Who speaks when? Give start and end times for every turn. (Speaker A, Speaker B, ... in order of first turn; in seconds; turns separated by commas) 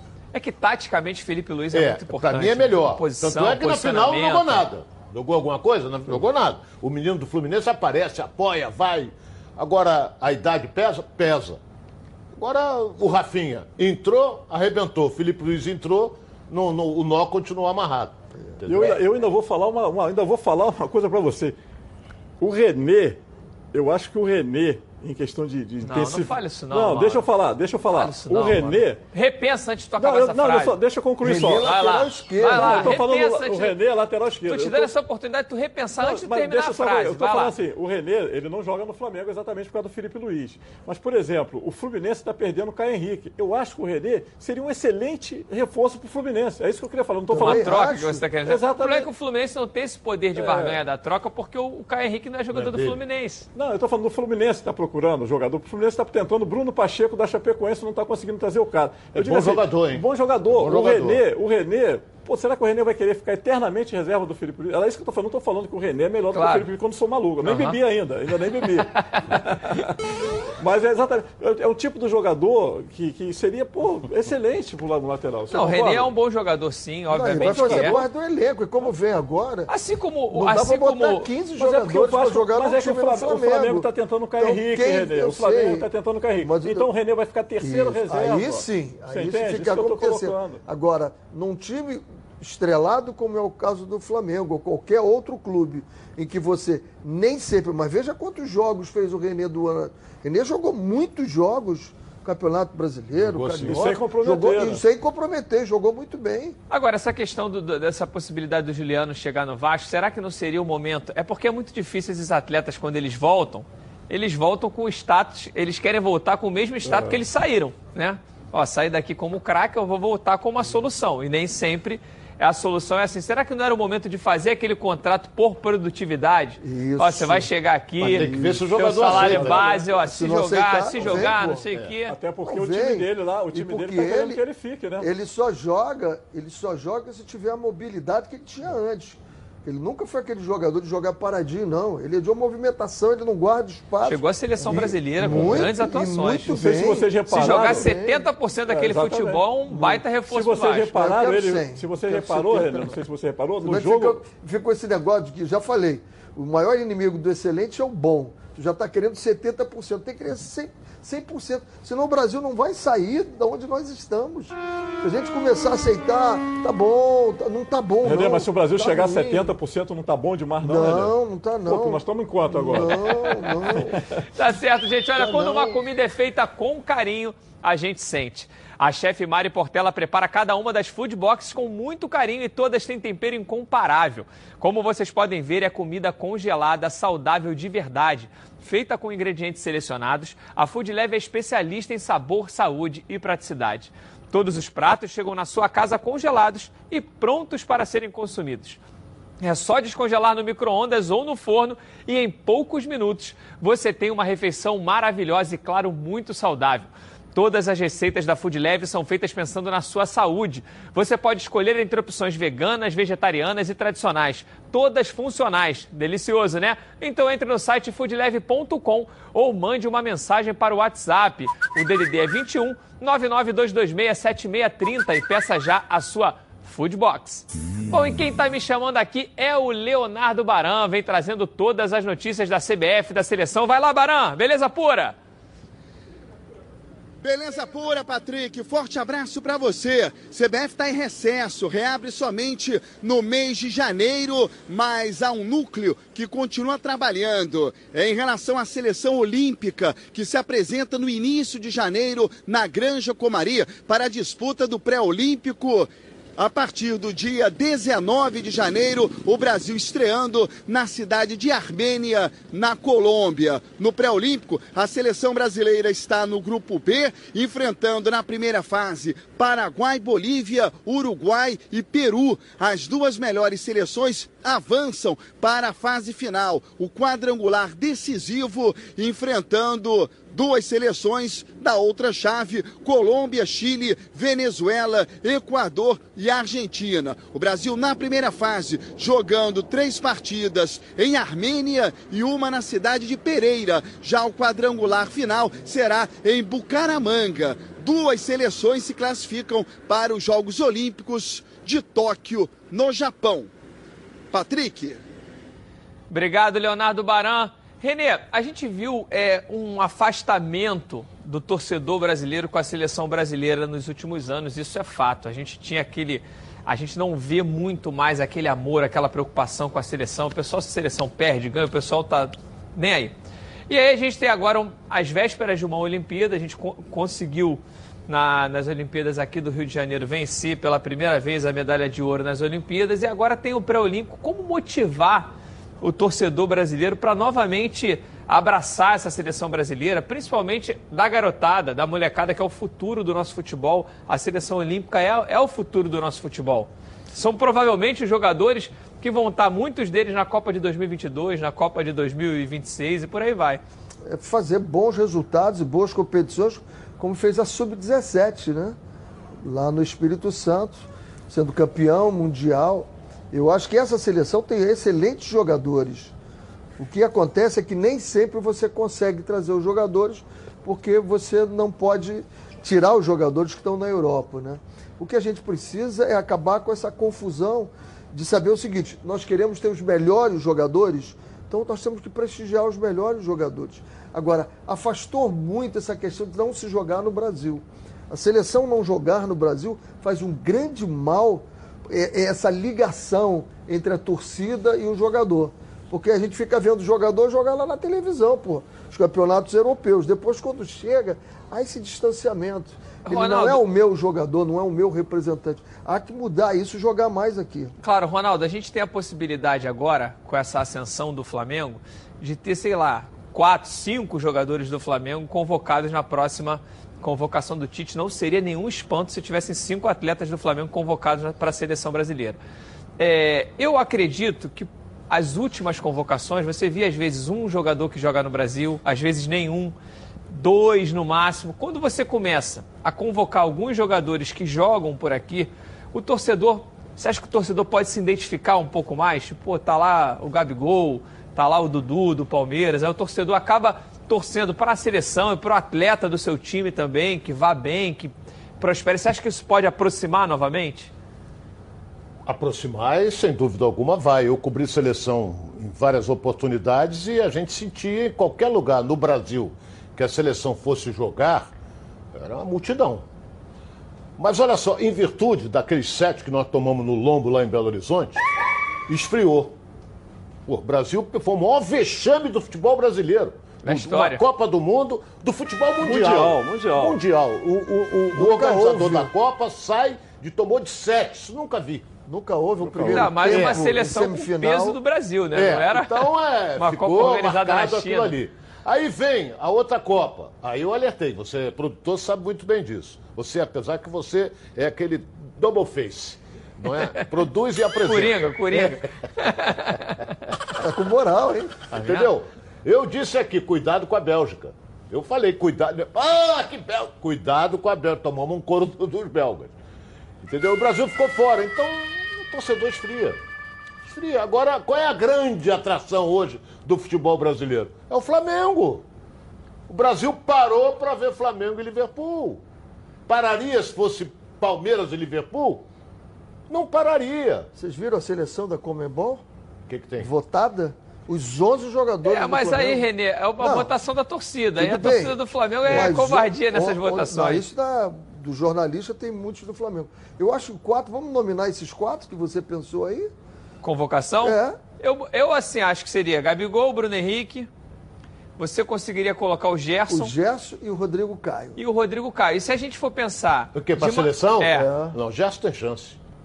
Speaker A: 0.3-4.6, Speaker B: 1.7-11.6, Speaker B: 12.3-19.0, Speaker C: 18.7-21.6, Speaker C: 22.4-23.2, Speaker C: 23.7-29.0, Speaker A: 25.8-27.3, Speaker A: 27.9-30.8, Speaker C: 30.0-31.7, Speaker D: 31.2-33.0, Speaker A: 31.6-33.8, Speaker C: 32.5-34.9, Speaker A: 34.4-37.5, Speaker C: 36.0-47.8, Speaker D: 47.3-48.2, Speaker A: 47.3-53.5, Speaker C: 48.4-49.1, Speaker C: 50.4-50.8, Speaker B: 52.5-53.0, Speaker C: 53.5-69.9, Speaker B: 59.1-61.2, Speaker A: 66.3-66.7, Speaker A: 67.4-67.8, Speaker A: 69.1-69.8, Speaker C: 70.6-76.1, Speaker A: 75.5-78.0, Speaker D: 77.1-79.7, Speaker C: 77.4-78.0, Speaker A: 79.7-81.3, Speaker D: 80.3-85.9, Speaker C: 81.6-90.6, Speaker D: 86.4-86.9, Speaker D: 87.6-106.6, Speaker B: 103.2-104.0, Speaker C: 103.5-104.8, Speaker A: 106.7-132.2, Speaker C: 116.8-117.2, Speaker D: 126.6-127.5, Speaker B: 128.0-129.8, Speaker D: 128.0-131.6, Speaker C: 132.1-135.1, Speaker D: 132.4-134.4, Speaker D: 135.0-148.2, Speaker A: 144.0-146.6, Speaker C: 145.2-145.7, Speaker C: 146.5-147.9, Speaker A: 147.3-150.9, Speaker C: 148.7-154.2, Speaker D: 150.9-153.0, Speaker D: 153.6-169.5, Speaker C: 168.0-171.1, Speaker D: 170.6-173.9, Speaker C: 171.7-173.1, Speaker A: 172.7-173.5, Speaker C: 173.9-174.2, Speaker A: 174.3-198.8, Speaker D: 175.2-175.8, Speaker A: 199.4-235.2, Speaker E: 237.2-303.5, Speaker E: 304.3-305.0, Speaker A: 306.1-323.1, Speaker A: 323.7-335.3, Speaker A: 335.8-353.6, Speaker D: 354.1-358.8, Speaker D: 359.4-366.1, Speaker D: 366.8-407.7, Speaker A: 403.1-403.6, Speaker A: 407.8-422.4, Speaker A: 423.0-429.7, Speaker A: 430.3-450.9, Speaker B: 452.2-461.5, Speaker B: 462.1-463.0, Speaker B: 464.2-468.3, Speaker B: 468.9-469.5, Speaker B: 470.5-481.9, Speaker A: 473.6-474.2, Speaker C: 475.8-477.0, Speaker D: 478.1-479.1, Speaker D: 482.1-484.8, Speaker C: 482.6-483.5, Speaker A: 482.8-488.1, Speaker B: 485.3-498.8, Speaker A: 497.8-499.9, Speaker D: 500.6-501.5, Speaker A: 501.7-502.1, Speaker B: 501.7-509.5, Speaker B: 510.2-513.2, Speaker B: 513.8-518.8, Speaker B: 519.7-522.4, Speaker B: 523.1-525.6, Speaker B: 526.5-527.5, Speaker D: 527.5-529.2, Speaker B: 529.7-530.1, Speaker D: 530.0-532.9, Speaker A: 532.0-537.5, Speaker D: 533.4-533.7, Speaker D: 534.6-543.1, Speaker A: 543.6-547.5, Speaker D: 544.2-544.6, Speaker A: 548.4-550.1, Speaker D: 549.9-551.6, Speaker A: 551.6-554.7, Speaker B: 553.5-556.0, Speaker D: 554.5-555.0